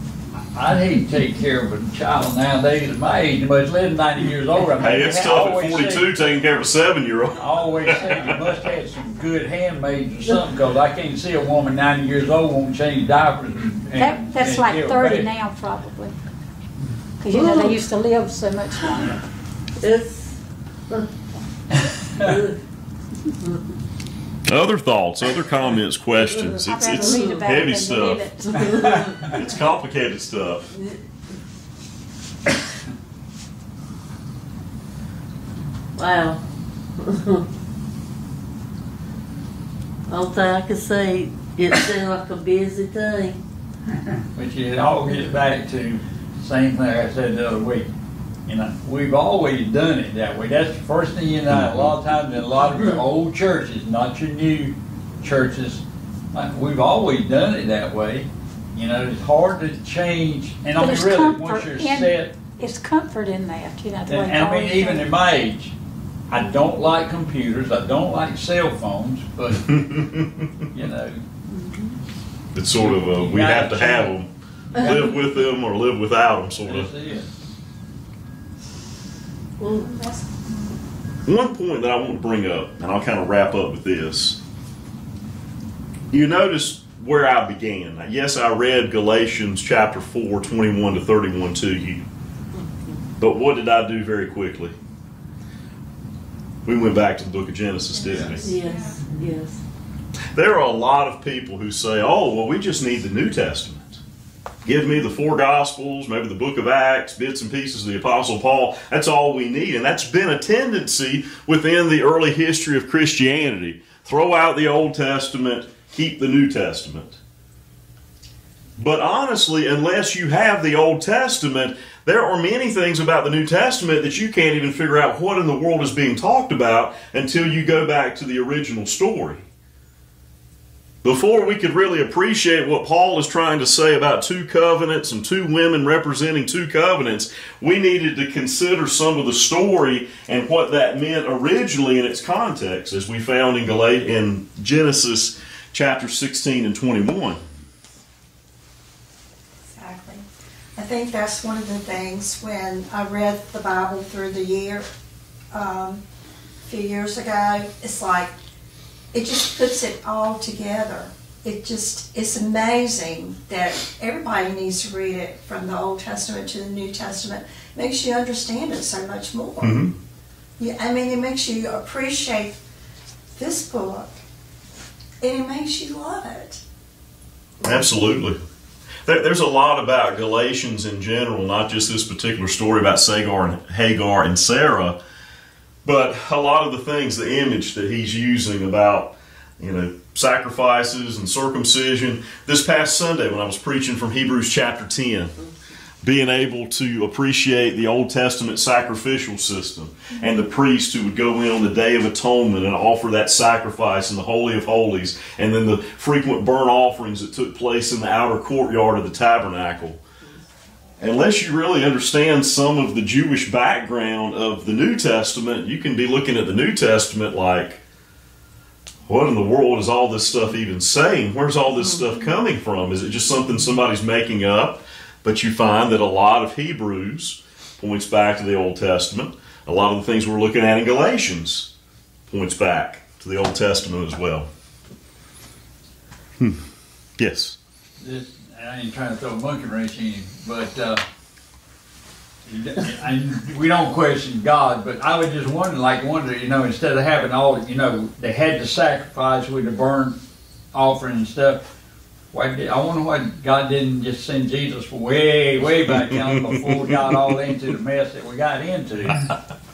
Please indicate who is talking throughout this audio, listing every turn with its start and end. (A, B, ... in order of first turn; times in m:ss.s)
0:00.5-0:06.1 A
0:04.8-0:08.6 B
0:07.4-0:15.3 A
0:13.9-0:16.2 C
0:17.2-0:19.2 C
0:17.3-0:17.8 D
0:19.8-0:20.4 D
0:21.8-0:22.5 A
0:22.2-0:22.5 D
0:24.5-0:28.3 B
0:26.5-0:29.1 C
0:28.5-0:29.0 D
0:28.7-0:29.3 A
0:29.2-0:30.7 B
0:36.0-0:36.4 D
0:37.0-0:37.4 D
0:40.1-0:43.4 D
0:44.3-0:47.9 A
0:48.5-1:02.4 A
1:00.8-1:05.1 C
1:04.0-1:05.7 A
1:06.3-1:10.1 A
1:09.6-1:10.7 B
1:10.7-1:11.2 A
1:11.6-1:11.9 D
1:12.5-1:16.9 B
1:12.7-1:14.1 A
1:14.8-1:15.2 A
1:16.6-1:17.3 A
1:19.6-1:19.9 D
1:19.6-1:20.5 E
1:21.2-1:24.4 B
1:26.1-1:32.0 B
1:33.2-1:34.7 B
1:36.6-1:38.5 B
1:38.0-1:39.0 E
1:38.4-1:39.6 D
1:40.3-1:44.0 B
1:44.6-1:57.2 B
1:58.8-2:09.4 B
2:11.0-2:27.4 B
2:29.7-2:30.2 E
2:30.8-2:34.9 E
2:35.5-2:36.0 E
2:36.6-2:38.3 E
2:39.1-2:49.8 E
2:49.6-2:49.9 B
2:50.6-2:52.6 E
2:53.4-2:54.2 E
2:55.2-2:56.6 E
2:57.6-2:58.4 B
2:59.0-3:05.0 B
3:05.8-3:15.3 B
3:16.0-3:30.0 B
3:31.0-3:37.8 B
3:39.1-3:51.7 B
3:52.3-3:54.5 B
3:56.4-3:56.6 B
3:57.2-3:57.6 B
3:58.0-4:01.0 A
4:02.5-4:10.2 A
4:10.7-4:11.6 A
4:12.3-4:19.3 A
4:15.9-4:17.1 B